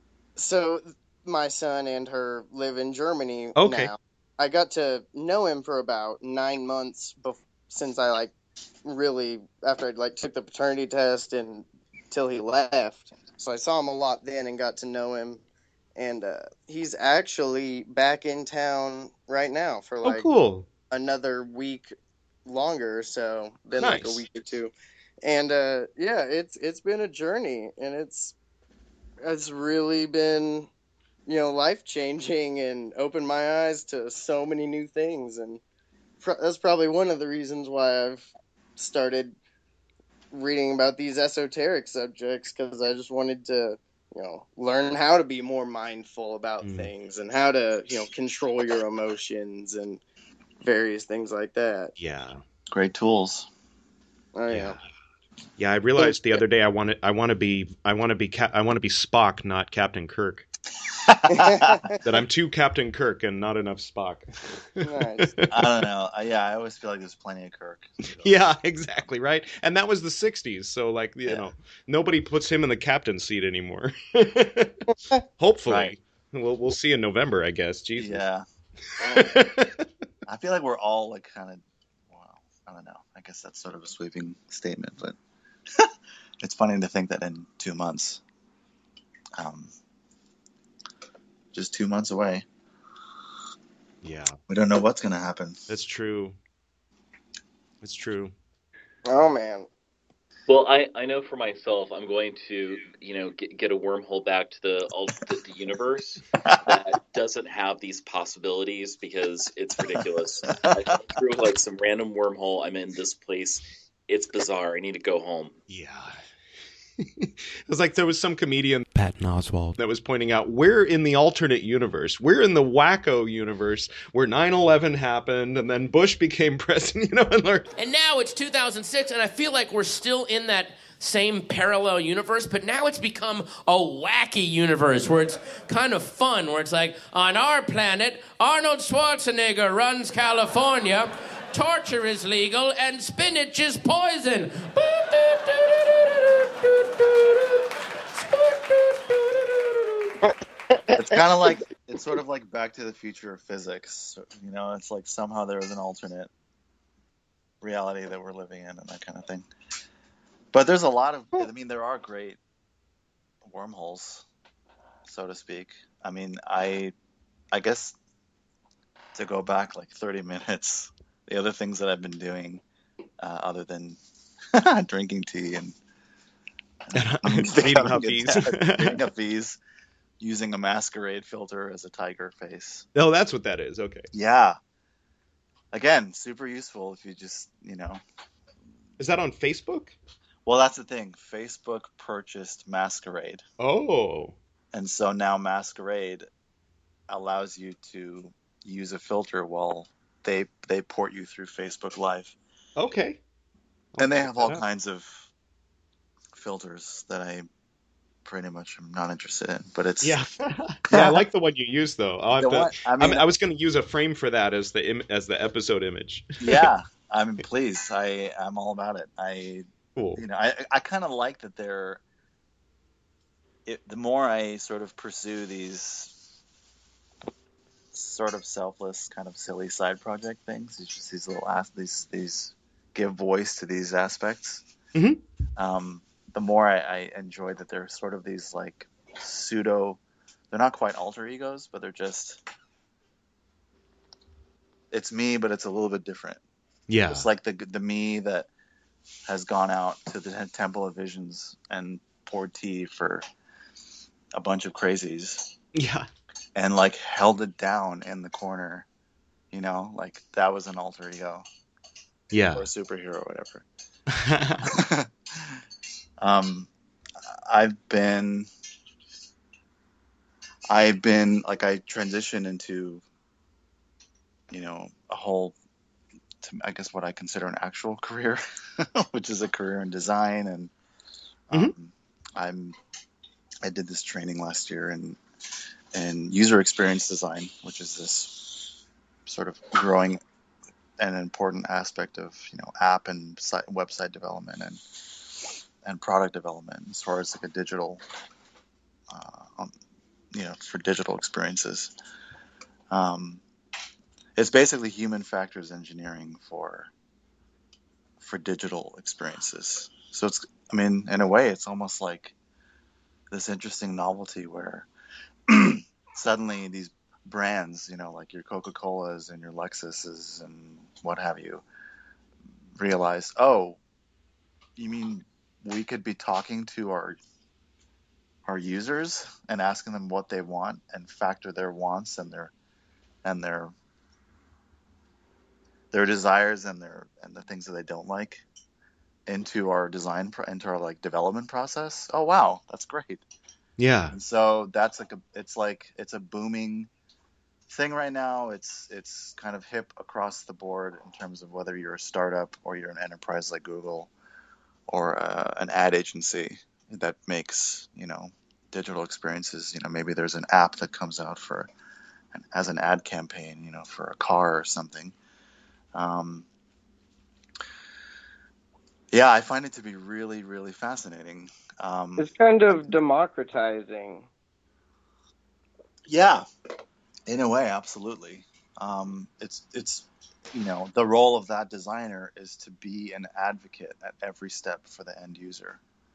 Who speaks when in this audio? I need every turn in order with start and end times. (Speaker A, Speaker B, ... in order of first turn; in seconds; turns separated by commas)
Speaker A: 0.3-8.3, Speaker B: 3.5-3.9, Speaker A: 8.8-15.4, Speaker A: 15.9-20.3, Speaker B: 20.0-20.7, Speaker A: 20.9-21.9, Speaker A: 22.4-24.7, Speaker B: 23.8-24.2, Speaker A: 25.2-28.3, Speaker A: 29.2-30.7, Speaker A: 31.2-35.6, Speaker A: 36.2-39.4, Speaker A: 40.3-50.0, Speaker B: 46.6-46.9, Speaker A: 50.6-51.9, Speaker B: 52.0-52.4, Speaker C: 52.7-53.5, Speaker A: 54.3-54.8, Speaker B: 54.5-54.8, Speaker B: 55.6-60.5, Speaker A: 56.0-56.4, Speaker C: 61.0-62.0, Speaker A: 61.3-62.0, Speaker B: 62.0-64.2, Speaker B: 64.8-65.7, Speaker A: 64.8-65.3, Speaker C: 65.5-68.5, Speaker B: 68.1-78.2, Speaker C: 75.7-75.9, Speaker C: 78.0-78.4, Speaker B: 79.0-79.9, Speaker C: 80.2-85.2, Speaker C: 86.4-88.2, Speaker C: 89.4-89.7, Speaker C: 91.5-92.4, Speaker B: 94.0-94.4, Speaker C: 94.5-95.6, Speaker B: 95.7-96.4, Speaker B: 97.8-98.3, Speaker A: 99.0-99.7, Speaker D: 100.5-115.5, Speaker C: 106.4-106.7, Speaker C: 110.6-111.0, Speaker B: 115.7-116.2, Speaker B: 117.0-127.7, Speaker E: 127.8-150.1, Speaker A: 150.2-151.6, Speaker C: 150.9-156.3, Speaker C: 157.6-159.5, Speaker C: 160.5-162.4, Speaker C: 163.4-164.2, Speaker C: 165.0-166.9, Speaker C: 167.5-167.9, Speaker C: 169.1-172.6, Speaker C: 173.2-174.0, Speaker C: 174.5-175.8, Speaker C: 176.8-179.6, Speaker B: 176.9-179.0, Speaker C: 180.2-182.8, Speaker B: 182.9-184.1, Speaker C: 184.1-184.6, Speaker C: 185.7-188.0, Speaker B: 189.0-189.9, Speaker C: 190.4-193.4, Speaker B: 193.6-194.3, Speaker C: 194.7-196.2, Speaker C: 197.1-202.3, Speaker B: 202.8-203.2, Speaker B: 203.9-204.6, Speaker C: 204.0-205.3, Speaker C: 206.3-207.5, Speaker C: 208.2-210.2, Speaker B: 210.0-216.7, Speaker C: 210.9-211.3, Speaker C: 212.4-213.2, Speaker C: 216.4-219.6, Speaker B: 219.9-220.2, Speaker C: 220.2-222.0, Speaker C: 223.7-226.2, Speaker C: 227.9-234.6, Speaker B: 234.9-235.2, Speaker C: 235.6-240.0, Speaker C: 240.5-242.4, Speaker C: 244.9-246.4, Speaker B: 246.9-247.3, Speaker C: 247.1-248.5, Speaker C: 249.2-253.2, Speaker C: 254.3-255.5, Speaker B: 255.7-256.1, Speaker C: 256.5-258.9, Speaker C: 259.5-261.4, Speaker B: 262.3-262.6, Speaker C: 262.5-263.6, Speaker B: 264.1-264.7, Speaker C: 264.6-265.6, Speaker C: 266.2-266.7, Speaker C: 267.2-268.5, Speaker C: 270.7-273.0, Speaker C: 274.5-275.5, Speaker C: 276.4-280.7, Speaker C: 281.5-282.8, Speaker C: 283.6-285.2, Speaker C: 285.9-290.2, Speaker C: 291.0-295.3, Speaker C: 295.8-298.0, Speaker C: 299.1-299.7, Speaker C: 300.3-301.9, Speaker C: 302.9-303.4, Speaker C: 304.4-306.9, Speaker C: 308.2-312.3, Speaker C: 313.3-314.9, Speaker C: 315.5-321.6, Speaker C: 322.8-323.8, Speaker C: 324.8-327.2, Speaker C: 328.4-332.5, Speaker C: 333.2-333.7, Speaker C: 335.9-338.4, Speaker C: 339.3-343.2, Speaker B: 343.8-344.2, Speaker C: 344.1-346.9, Speaker C: 347.7-354.1, Speaker C: 354.9-361.7, Speaker C: 362.3-365.1, Speaker C: 365.9-366.5, Speaker C: 369.1-372.9, Speaker A: 372.2-374.3, Speaker C: 376.1-376.4, Speaker C: 377.3-385.8